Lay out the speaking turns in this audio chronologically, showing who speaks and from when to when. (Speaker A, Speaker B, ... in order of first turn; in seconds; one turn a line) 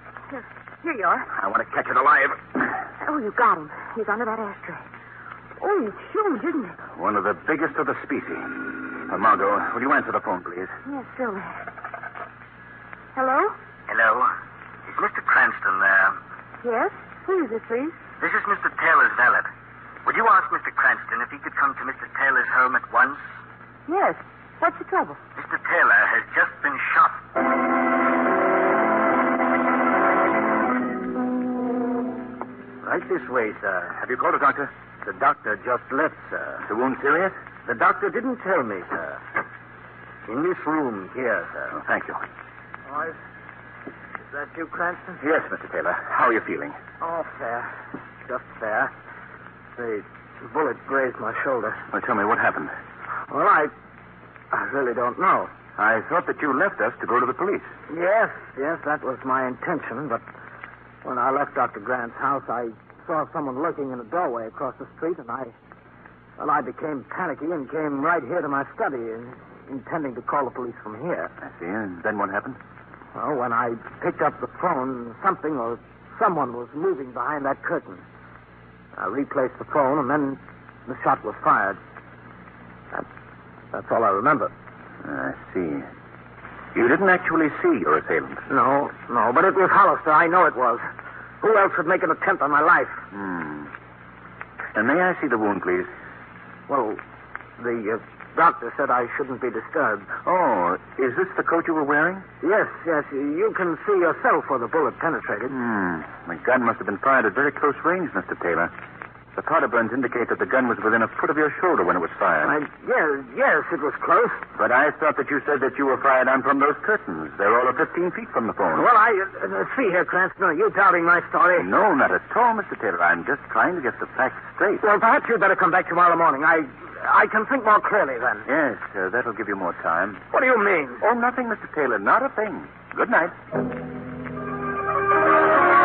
Speaker A: 0.3-1.3
Speaker B: 1.3-2.4
Speaker A: 3.0-4.8
Speaker A: 5.6-6.8
Speaker B: 7.0-10.7
Speaker A: 10.8-11.6
Speaker A: 13.2-13.6
Speaker C: 13.9-14.3
Speaker C: 14.9-16.2
Speaker A: 16.6-18.0
Speaker C: 18.2-19.5
Speaker C: 20.1-23.2
Speaker A: 23.9-25.2
Speaker C: 25.4-27.3
Speaker D: 32.8-34.0
Speaker B: 34.0-34.7
Speaker D: 35.0-36.6
Speaker B: 36.6-37.4
Speaker D: 37.6-39.2
Speaker D: 40.3-41.8
Speaker B: 41.7-42.2
Speaker D: 42.9-43.2
Speaker D: 44.3-45.2
Speaker B: 45.2-46.8
Speaker D: 47.0-47.7
Speaker D: 48.3-48.9
Speaker D: 49.8-51.8
Speaker B: 51.9-52.7
Speaker D: 53.3-53.7
Speaker D: 54.5-55.5
Speaker B: 55.8-57.7
Speaker D: 57.9-60.2
Speaker D: 61.0-65.5
Speaker D: 66.4-71.3
Speaker B: 71.4-72.6
Speaker D: 73.2-78.0
Speaker D: 79.0-81.8
Speaker D: 83.7-84.5
Speaker B: 85.0-85.9
Speaker B: 86.7-88.4
Speaker D: 88.5-90.9
Speaker D: 91.4-93.0
Speaker B: 93.1-93.7
Speaker B: 94.7-95.9
Speaker D: 96.7-97.0
Speaker D: 97.6-100.1
Speaker B: 100.2-102.2
Speaker D: 102.4-105.5
Speaker B: 105.5-108.7
Speaker B: 109.4-112.5
Speaker D: 112.4-114.5
Speaker B: 114.6-118.9
Speaker D: 118.7-121.7
Speaker B: 121.6-124.8
Speaker D: 124.8-128.5
Speaker B: 128.5-130.2
Speaker D: 130.3-131.0
Speaker B: 131.0-133.3